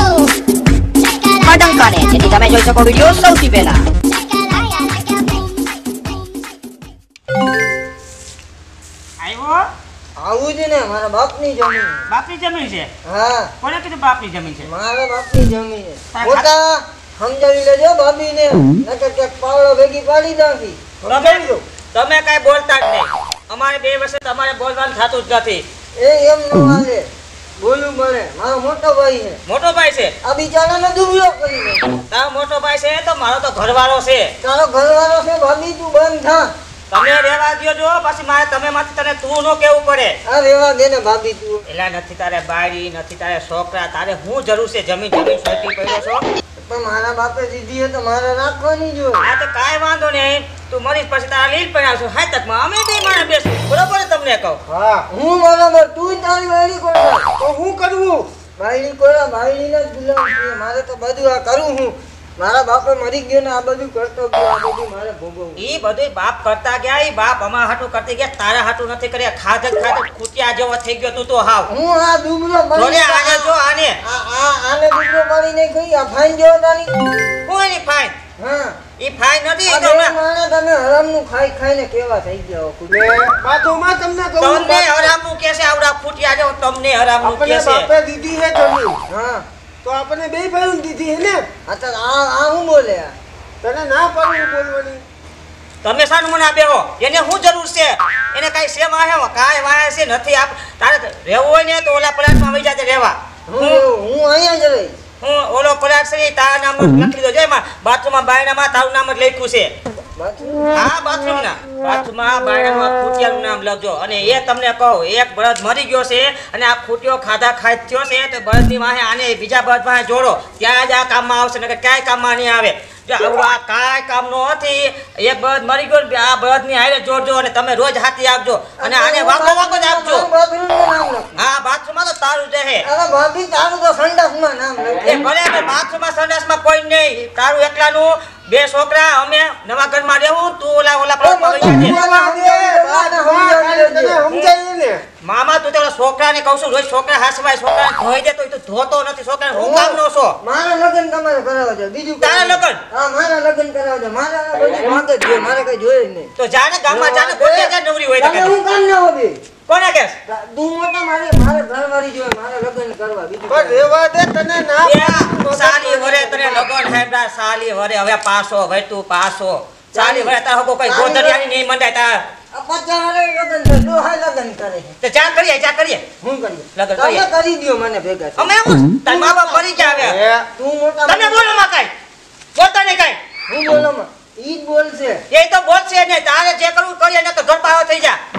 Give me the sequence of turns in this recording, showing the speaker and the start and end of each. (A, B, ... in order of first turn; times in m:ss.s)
0:01.4-0:03.8 A
0:09.2-0:09.6 B
0:10.2-0:12.0 C
0:12.1-0:12.9 B
0:13.0-0:13.5 C
0:13.6-0:14.7 B
0:14.6-0:20.8 C
0:16.1-0:16.5 B
0:21.0-0:21.6 D
0:21.1-0:25.6 B
0:26.0-0:27.1 C
0:27.6-0:29.4 C
0:29.5-0:30.1 B
0:30.2-0:32.0 C
0:32.1-0:34.3 B
0:34.4-0:36.5 C
0:36.9-0:40.2 B
0:40.3-0:41.6 C
0:41.7-0:46.2 B
0:46.6-0:49.3 C
0:49.2-0:54.6 B
0:54.6-0:55.0 D
0:55.1-0:57.3 C
0:57.4-0:58.3 D
0:58.6-1:05.6 C
1:05.6-1:11.7 B
1:11.7-1:13.5 C
1:12.8-1:14.0 B
1:14.0-1:17.0 C
1:17.4-1:18.1 B
1:18.4-1:18.8 C
1:19.0-1:20.2 B
1:19.7-1:23.2 C
1:22.9-1:25.1 D
1:24.4-1:27.9 B
1:27.2-1:29.0 D
1:29.1-1:29.4 C
1:29.8-1:31.4 D
1:31.7-1:33.1 C
1:33.6-1:35.0 D
1:35.8-1:43.8 B
1:43.5-1:45.0 C
1:45.2-1:49.7 B
1:50.2-1:50.7 C
1:50.7-2:10.3 B
2:08.8-2:11.3 C
2:11.3-2:12.9 B
2:12.8-2:15.3 C
2:15.0-2:22.0 B
2:21.2-2:24.2 C
2:21.6-2:25.0 D
2:24.3-2:24.6 B
2:25.2-2:30.4 B
2:29.5-2:36.3 C
2:32.2-2:32.8 B
2:36.4-2:38.6 B
2:37.1-2:39.4 C
2:39.7-2:40.2 B
2:40.3-2:43.9 C
2:43.5-2:46.7 D
2:44.8-2:52.3 B
2:49.9-2:51.4 C
2:52.5-2:55.0 C
2:55.0-2:56.0 B
2:56.2-2:58.5 C
2:56.8-2:57.3 B
2:58.4-3:00.2 B
2:59.0-3:00.0 C
3:00.0-3:00.5 D
3:00.6-3:01.5 C
3:01.1-3:01.9 B
3:02.5-3:03.2 B
3:03.5-3:05.2 C
3:05.3-3:08.2 B